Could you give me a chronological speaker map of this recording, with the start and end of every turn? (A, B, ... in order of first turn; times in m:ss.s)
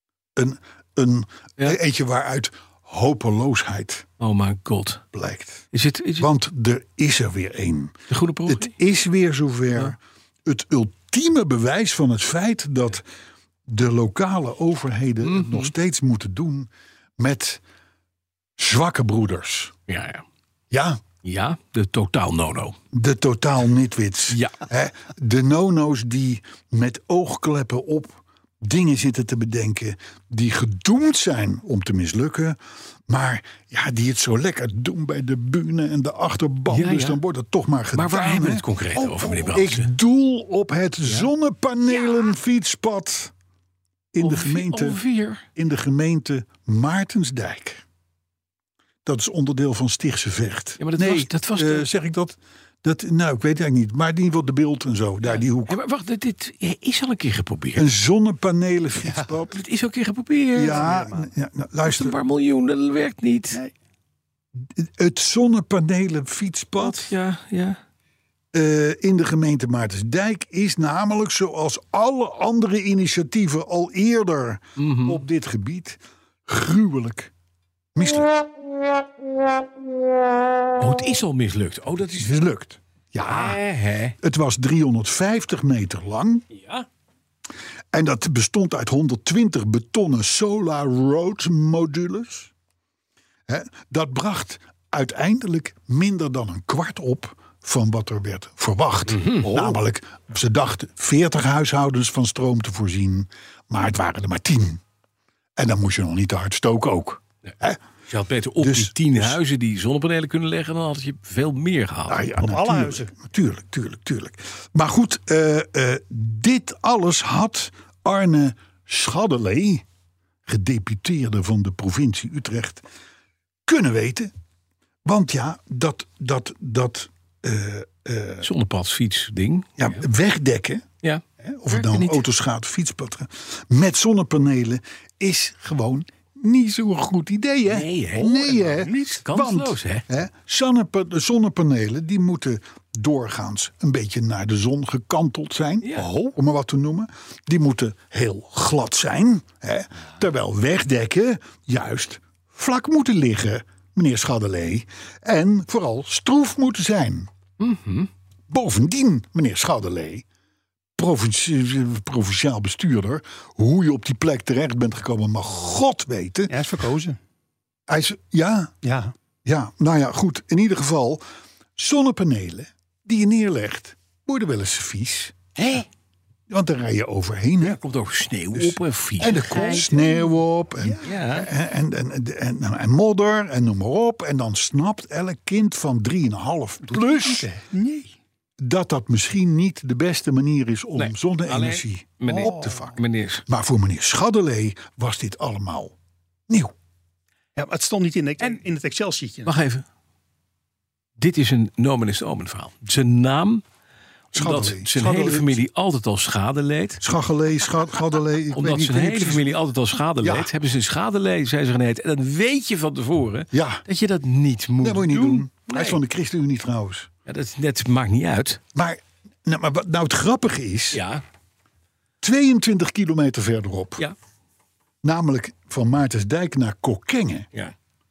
0:00.4-0:04.1 A
0:04.2-0:05.0 B
0:05.1-0:05.7 A
0:05.7-0:06.3 B
0:06.2-0:07.9 A
0:08.1-0:08.7 B
0:08.5-0:13.0 A
0:13.7-0:17.6 A
0:15.2-0:15.7 B
0:18.6-0:19.7 A
0:19.9-0:20.2 B
0:20.7-0:21.0 A
0:21.2-0:22.8 B
0:22.9-0:32.6 A
0:24.3-0:24.6 B
0:33.1-0:43.3 A
0:36.7-0:37.2 B
0:37.9-0:39.9 B
0:44.1-0:45.0 A
0:44.2-0:45.4 B
0:45.5-0:47.8 A
0:49.0-0:55.8 A
0:50.8-0:51.9 B
0:55.3-0:57.9 B
0:57.8-0:59.6 A
0:59.5-1:00.9 B
1:00.5-1:02.2 A
1:00.7-1:01.3 C
1:01.8-1:03.6 B
1:04.6-1:07.1 A
1:06.8-1:07.8 B
1:08.5-1:17.3 A
1:14.8-1:15.2 B
1:17.9-1:18.4 A
1:20.8-1:22.4 B
1:22.1-1:23.6 A
1:23.2-1:24.2 B
1:24.2-1:26.4 A
1:26.5-1:26.8 B
1:27.9-1:32.5 A
1:33.5-1:44.8 A
1:39.1-1:39.7 B
1:45.6-1:47.8 A
1:48.1-1:52.3 B
1:48.6-1:49.4 A
1:52.1-1:59.8 A
1:52.4-1:53.1 C
2:00.4-2:02.8 A
2:03.6-2:04.3 A
2:05.0-2:08.5 A
2:08.4-2:10.0 B
2:09.8-2:10.9 A
2:11.0-2:12.2 B
2:11.4-2:37.3 A
2:17.6-2:18.6 B
2:18.2-2:19.2 C
2:19.2-2:20.0 B
2:25.8-2:26.1 B
2:26.0-2:26.3 C
2:37.6-2:38.1 B
2:38.5-2:40.2 A
2:41.0-2:46.6 A
2:46.5-2:47.2 C
2:47.9-2:48.7 A
2:48.8-2:49.1 C
2:49.4-2:51.2 A
2:51.8-2:55.3 A
2:55.6-2:55.9 C
2:56.5-2:57.8 A
2:57.6-2:59.9 B
2:58.5-3:07.5 A
2:59.2-3:01.2 C
3:01.0-3:01.5 B
3:06.9-3:08.2 C
3:08.6-3:15.9 A
3:11.0-3:13.4 B
3:12.2-3:12.6 C
3:16.5-3:16.7 A
3:17.6-3:19.5 C
3:19.4-3:19.8 B
3:21.2-3:23.6 B
3:24.3-3:25.6 A
3:24.3-3:27.0 B
3:27.0-3:29.5 A
3:28.5-3:36.0 B
3:30.2-3:30.5 A
3:33.5-3:33.8 A
3:34.8-3:37.1 A
3:37.2-3:38.6 B
3:38.7-3:41.0 A
3:40.9-3:41.2 B
3:42.2-3:44.1 A
3:45.0-3:47.5 A